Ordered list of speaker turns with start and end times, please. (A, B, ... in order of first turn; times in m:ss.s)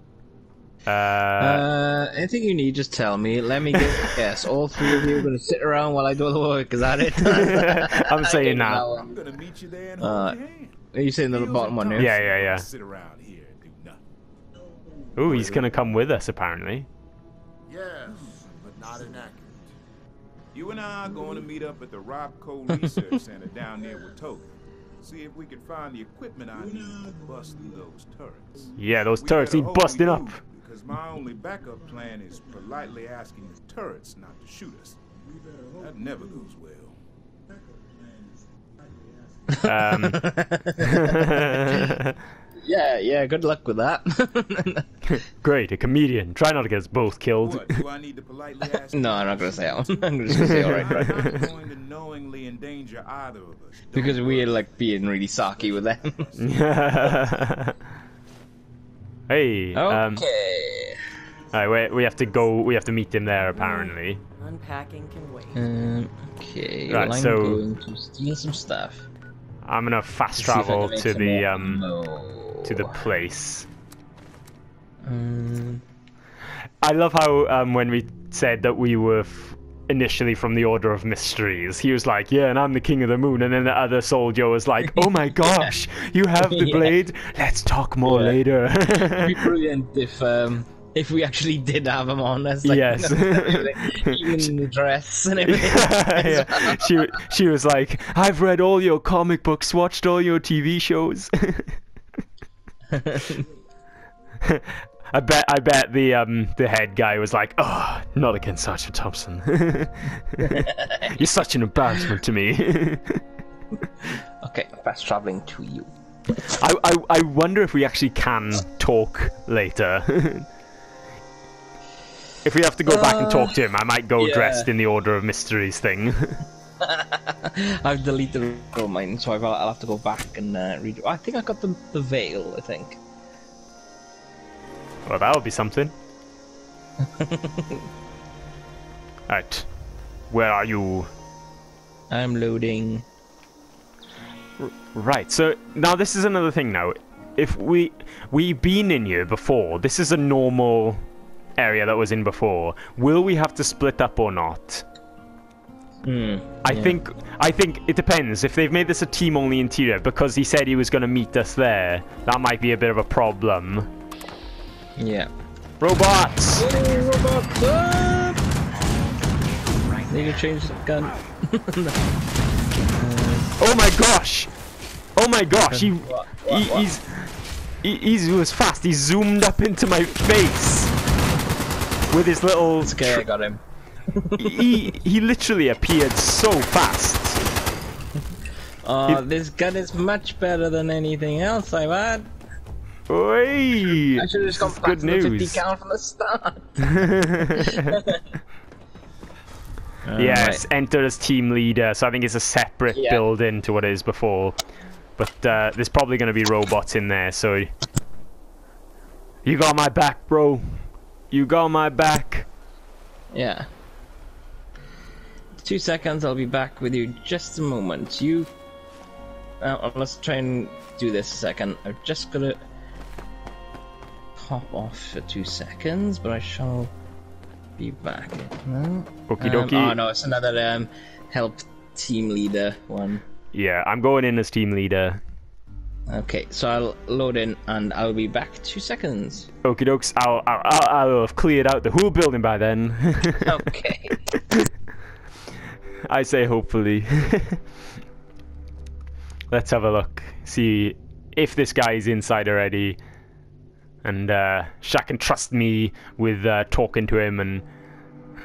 0:00.9-0:01.7 A
0:01.4-0:09.1 B
0:07.2-0:08.9 A
0:08.8-0:14.0 C
0:10.0-0:10.4 B
0:10.9-0:12.1 B
0:12.0-0:12.7 A
0:15.2-0:16.9 A
0:15.2-0:15.7 C
0:17.7-0:19.7 D
0:20.5-0:35.0 C
0:28.8-0:30.4 A
0:35.6-0:37.0 C
0:39.5-0:41.9 B
0:39.6-0:40.2 A
0:40.8-0:42.2 A
0:42.6-0:44.9 B
0:45.0-0:47.8 A
0:47.4-0:54.7 C
0:48.9-0:51.4 B
0:50.3-0:51.4 A
0:53.9-0:56.3 B
0:56.2-0:57.2 C
0:56.4-0:57.7 A
0:59.3-1:00.2 A
0:59.7-1:01.0 B
1:01.5-1:04.2 A
1:03.6-1:05.6 E
1:05.5-1:09.1 B
1:06.9-1:07.6 A
1:09.6-1:11.8 A
1:10.4-1:13.0 B
1:12.6-1:13.7 A
1:15.0-1:15.8 B
1:16.8-1:29.5 A
1:25.0-1:25.7 B
1:26.4-1:27.0 B
1:28.0-1:37.1 B
1:32.6-1:34.5 A
1:35.4-1:41.8 A
1:42.9-1:43.4 B
1:44.4-1:53.2 A
1:50.4-1:51.1 B
1:54.0-1:55.9 B
1:56.4-2:00.5 A
2:02.4-2:06.4 A
2:02.9-2:03.6 B
2:04.2-2:04.7 B
2:06.8-2:13.0 B
2:15.1-2:16.0 A
2:17.0-2:17.8 B
2:19.3-2:19.7 A
2:20.3-2:21.1 A
2:22.1-2:23.1 B
2:24.6-2:31.0 A
2:31.6-2:34.8 A
2:36.0-2:37.0 B
2:36.6-2:43.9 A
2:45.0-2:45.3 B
2:45.8-2:46.7 A
2:46.5-2:48.4 B
2:50.1-2:52.0 B
2:53.0-2:53.6 B
2:53.6-2:54.5 A
2:55.2-2:57.3 A
2:55.6-2:56.9 B
2:57.8-3:00.9 A
3:02.1-3:03.3 A
3:02.8-3:04.9 B
3:04.4-3:07.4 A
3:08.8-3:12.3 B
3:13.1-3:15.6 A
3:13.9-3:16.9 B
3:16.8-3:17.9 A
3:17.6-3:18.4 B
3:20.0-3:20.6 B
3:20.2-3:24.6 A
3:22.9-3:23.2 B
3:25.2-3:27.7 A
3:29.4-3:32.5 A
3:33.3-3:33.7 B
3:35.6-3:38.5 B
3:39.6-3:42.6 B
3:44.4-3:46.9 B
3:47.8-3:53.2 B
3:49.3-3:50.0 A
3:53.5-3:55.2 A
3:56.1-3:59.5 B
3:59.6-4:03.6 A
4:03.4-4:04.2 B
4:04.4-4:04.7 A
4:06.1-4:07.6 A
4:09.5-4:13.0 A
4:14.0-4:17.6 A